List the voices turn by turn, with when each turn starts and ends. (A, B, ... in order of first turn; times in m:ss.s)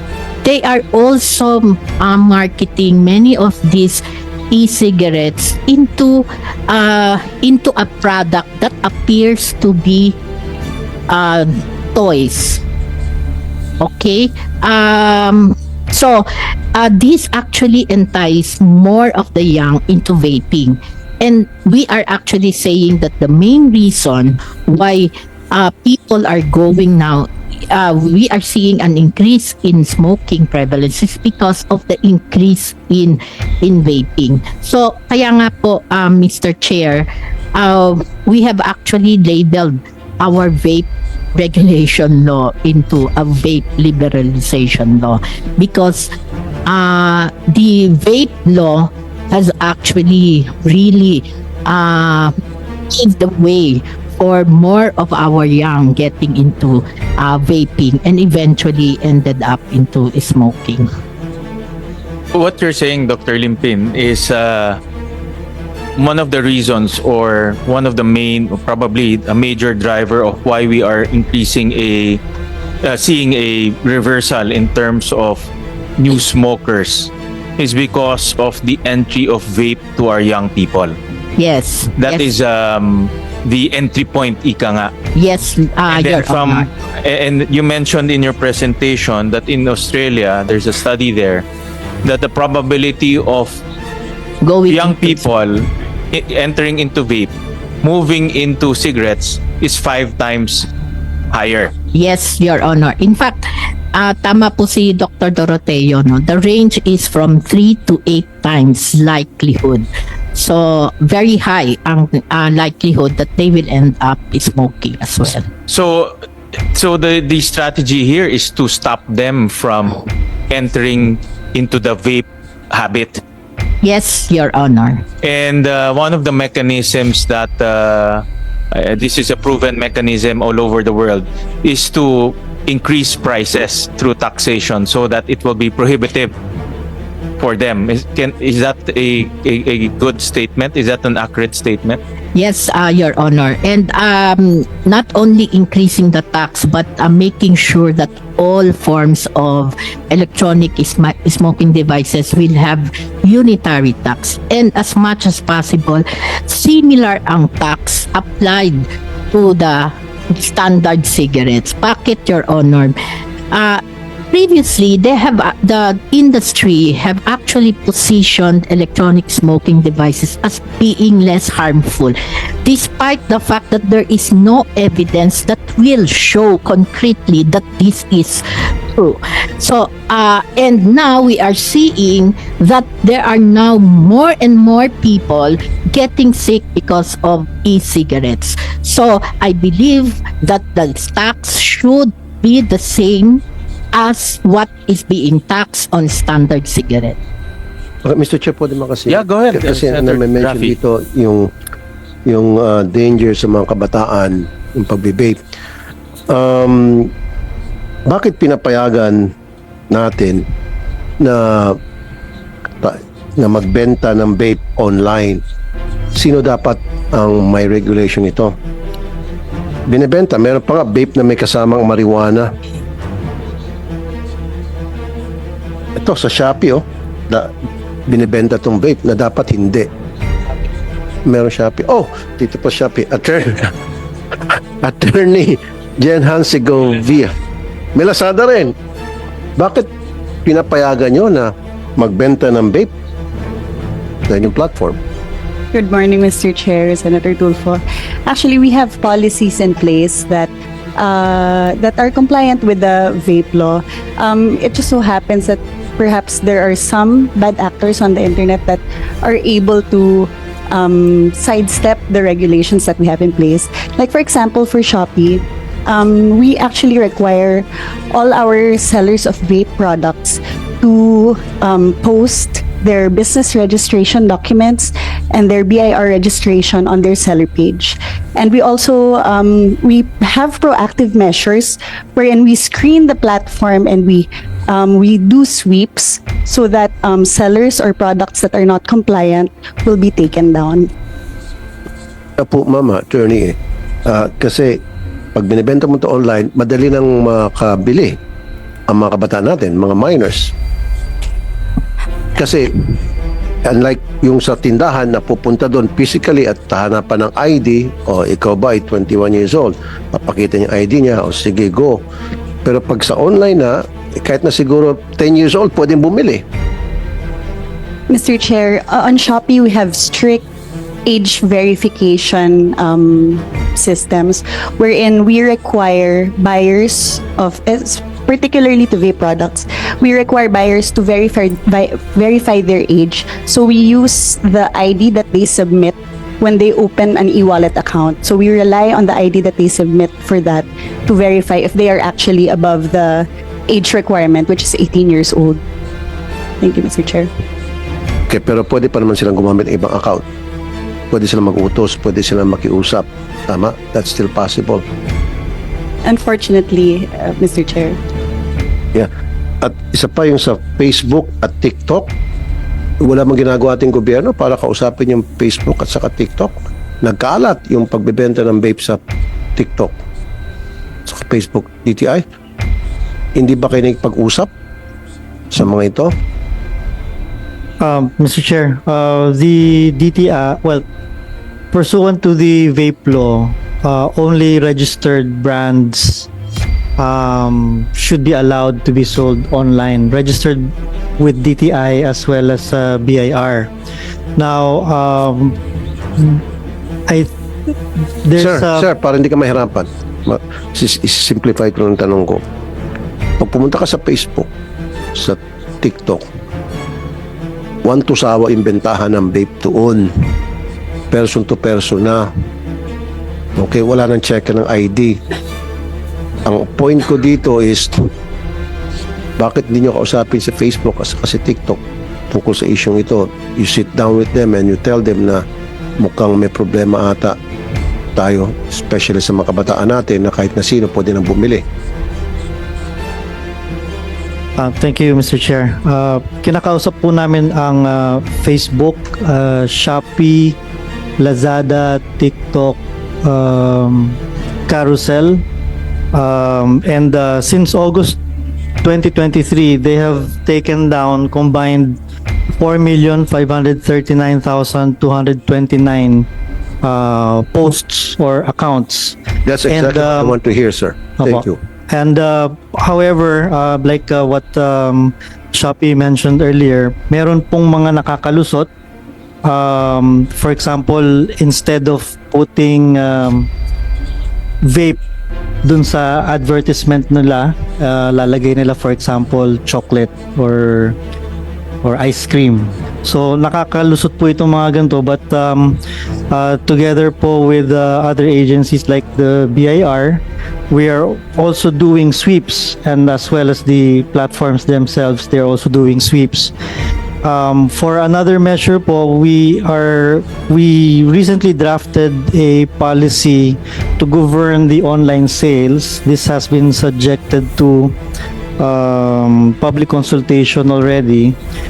0:00.4-0:10.2 A
0:11.1-0:12.6 A
0:13.8-0:46.1 A
0:46.6-0:52.3 A
0:52.9-1:00.9 A
1:02.3-1:04.8 B
1:06.0-1:12.2 B
1:12.8-1:21.0 B
1:21.4-1:22.3 A
1:22.0-1:24.9 B
1:25.1-1:26.7 A
1:25.9-1:31.4 B
1:32.0-1:33.6 B
1:34.4-1:35.2 A
1:34.7-1:37.3 B
1:37.8-1:40.7 B
1:41.3-1:41.7 B
1:41.9-1:55.5 A
1:55.7-1:56.2 B
1:56.7-2:03.2 B
2:03.8-2:05.0 A
2:05.2-2:16.3 B
2:17.4-2:22.0 B
2:22.3-2:43.0 A
2:43.5-3:13.4 A
3:13.9-3:17.2 A
3:18.0-3:21.5 C
3:19.1-3:20.7 B
3:22.2-3:25.4 C
3:26.3-3:27.1 C
3:28.1-3:29.3 C
3:29.9-3:30.4 C
3:31.2-3:31.8 C
3:32.8-3:35.4 C
3:36.1-3:38.5 C
3:39.9-3:42.5 C
3:46.0-3:47.5 C
3:48.1-3:49.9 C
3:51.2-3:53.7 C
3:54.5-3:57.3 C
3:57.9-3:58.7 C
3:59.6-3:59.9 C
4:00.4-4:02.9 C
4:04.3-4:05.0 C
4:05.7-4:50.9 D
4:52.4-4:54.8 C
4:55.3-4:58.2 C
4:58.9-5:00.5 C
5:02.3-5:02.9 C
5:03.6-5:12.0 C
5:12.6-5:16.4 C
5:18.1-5:20.4 D
5:21.0-5:45.6 D
5:46.6-5:47.3 D
5:48.3-5:50.2 C
5:51.1-5:54.8 C
5:56.0-5:58.0 D
5:59.6-6:02.1 C
6:03.0-6:09.0 C
6:09.6-6:10.0 C
6:11.1-6:12.2 C
6:13.4-6:14.5 C
6:15.5-6:16.1 C
6:17.8-6:20.8 E
6:21.7-6:26.3 E
6:27.0-6:33.7 E
6:34.4-6:35.6 E
6:36.2-6:36.4 E
6:37.1-6:38.9 E
6:38.4-6:42.4 C
6:43.4-6:44.5 C
6:45.1-6:46.2 C
6:47.8-6:50.1 C
6:51.1-6:52.3 C
6:53.6-6:55.2 C
6:56.4-6:58.1 C
6:59.4-7:05.4 C
7:06.0-7:07.4 C
7:08.1-7:11.6 C
7:14.6-7:20.6 E
7:21.2-7:25.4 E
7:26.1-7:28.2 E
7:28.8-7:32.0 E
7:32.6-7:36.3 E
7:36.8-7:39.2 E
7:39.4-7:41.6 C
7:39.7-7:40.4 E
7:41.2-7:48.7 E
7:49.4-7:53.5 E
7:54.6-7:55.0 E
7:55.6-8:01.0 E
8:01.8-8:16.5 E
8:17.2-8:28.0 E
8:28.6-8:31.4 E